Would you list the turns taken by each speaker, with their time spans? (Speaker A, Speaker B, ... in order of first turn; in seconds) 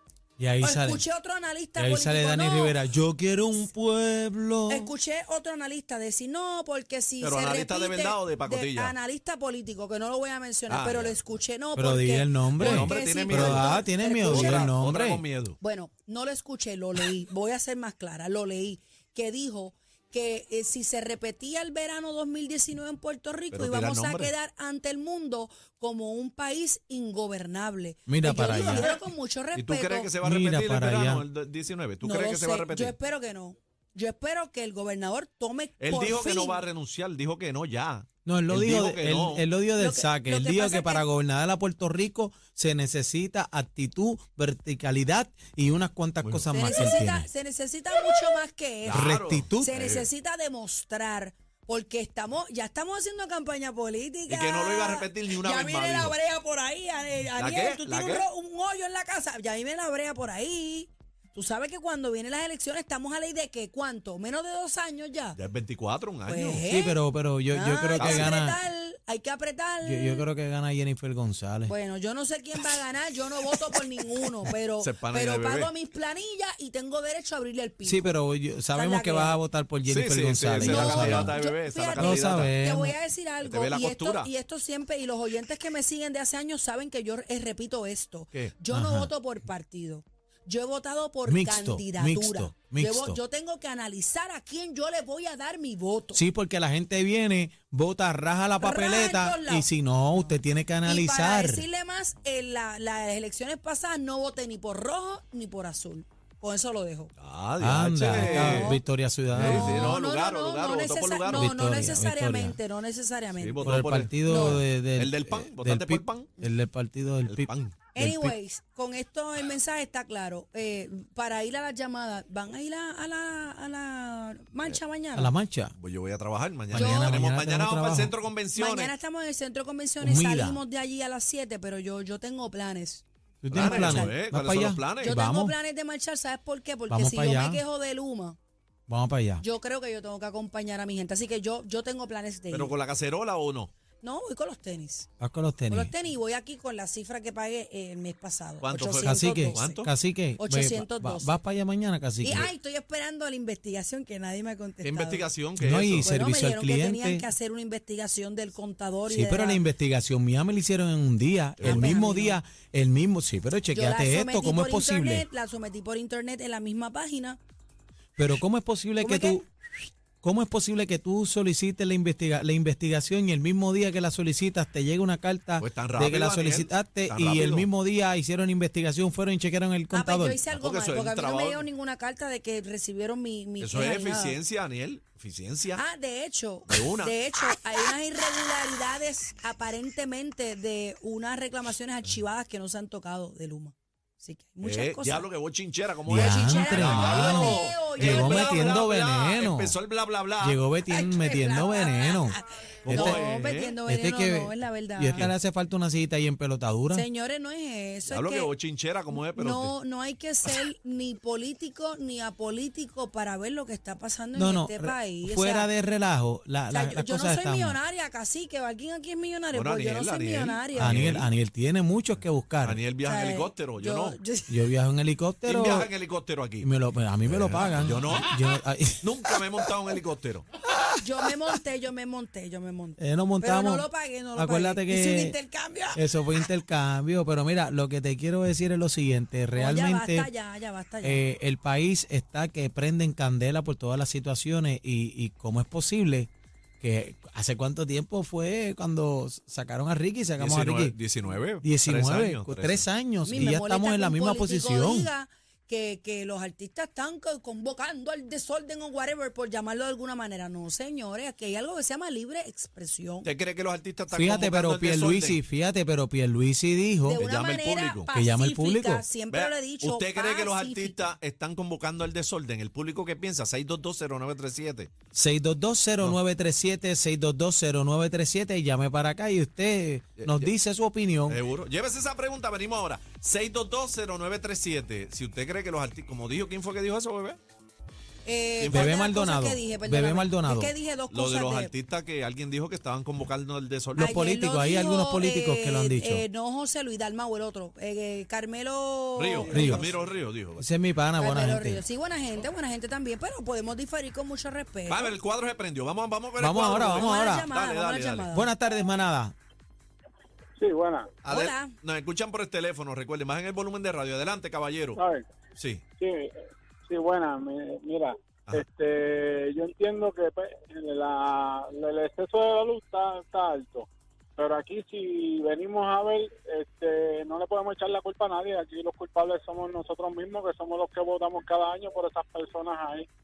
Speaker A: 0.4-1.0, 1.8-4.9, 11.8-15.2, 28.1-28.9, 30.2-31.2, 38.2-47.3, 48.9-49.7, 66.7-68.6, 69.8-71.7, 77.8-81.4, 82.0-82.9, 88.7-89.1, 91.3-93.2, 96.1-101.7, 107.6-110.0, 111.3-112.6, 113.6-118.3, 125.2-125.7, 126.7-128.1, 130.0-130.6, 133.4-135.5, 136.9-137.6, 138.9-139.4, 145.2-145.9, 149.0-152.5, 155.6-157.2, 159.1-165.2, 168.2-169.5, 170.2-180.4, 196.1-199.8, 200.4-202.3, 202.8-203.2, 203.8-207.0, 214.3-217.8, 220.8-222.8, 224.5-225.9, 226.6-229.4, 233.0-235.3, 235.9-240.3, 241.0-246.3, 246.8-250.9, 251.6-255.1, 264.1-267.2, 268.1-269.0, 275.1-281.4, 288.7-290.7, 293.9-296.2, 299.5-299.9, 300.6-301.8, 306.4-307.5, 308.3-309.3
Speaker B: 0.6-2.8, 4.7-14.7, 15.6-30.1, 32.0-36.6, 39.8-41.0, 46.5-65.4, 66.3-67.0, 67.5-70.2, 71.7-78.1, 78.7-79.4, 80.6-96.2, 98.6-107.1, 108.2-108.8, 109.4-114.6, 117.9-125.3, 126.7-127.2, 128.6-134.2, 135.0-138.4, 139.4-142.7, 144.0-145.1, 145.7-149.8, 150.4-151.3, 152.2-155.3, 156.0-159.6, 161.6-162.4, 163.7-167.4, 169.0-169.4, 179.9-184.4, 185.8-195.2, 196.1-198.8, 200.9-205.3, 206.9-208.5, 209.2-215.7, 216.7-221.2, 223.0-224.5, 231.0-236.0, 239.6-241.2, 253.2-263.3, 267.1-271.0, 288.2-291.7, 294.0-299.9, 301.2-305.1, 306.8-308.5, 311.3-311.7
Speaker C: 7.2-8.9, 10.7-11.2, 12.6-15.6, 23.5-24.3, 28.6-28.9, 29.5-32.9, 35.8-39.4, 48.8-50.1, 54.3-56.1, 57.4-58.2, 65.3-66.6, 68.0-68.3, 74.8-75.7, 79.9-82.5, 83.4-84.3, 107.2-108.8, 109.3-111.5, 113.4-116.3, 117.2-117.8, 125.8-128.9, 133.5-135.1, 142.5-143.7, 148.6-149.9, 154.8-156.1, 161.6-162.0, 175.6-177.7, 180.5-181.7, 183.6-185.8, 186.7-187.1, 194.6-200.6, 202.8-203.8, 208.1-209.7, 219.5-221.3, 222.6-224.2, 225.4-226.7, 227.2-228.3, 229.0-230.5, 250.4-252.8, 263.2-265.4, 267.2-268.1, 269.3-274.9, 280.2-280.5, 281.3-287.4, 288.6-289.0, 291.1-294.1, 299.1-300.6, 304.9-308.3, 311.2-315.0, 315.6-315.8
Speaker D: 310.6-311.1, 314.9-315.2, 316.0-333.1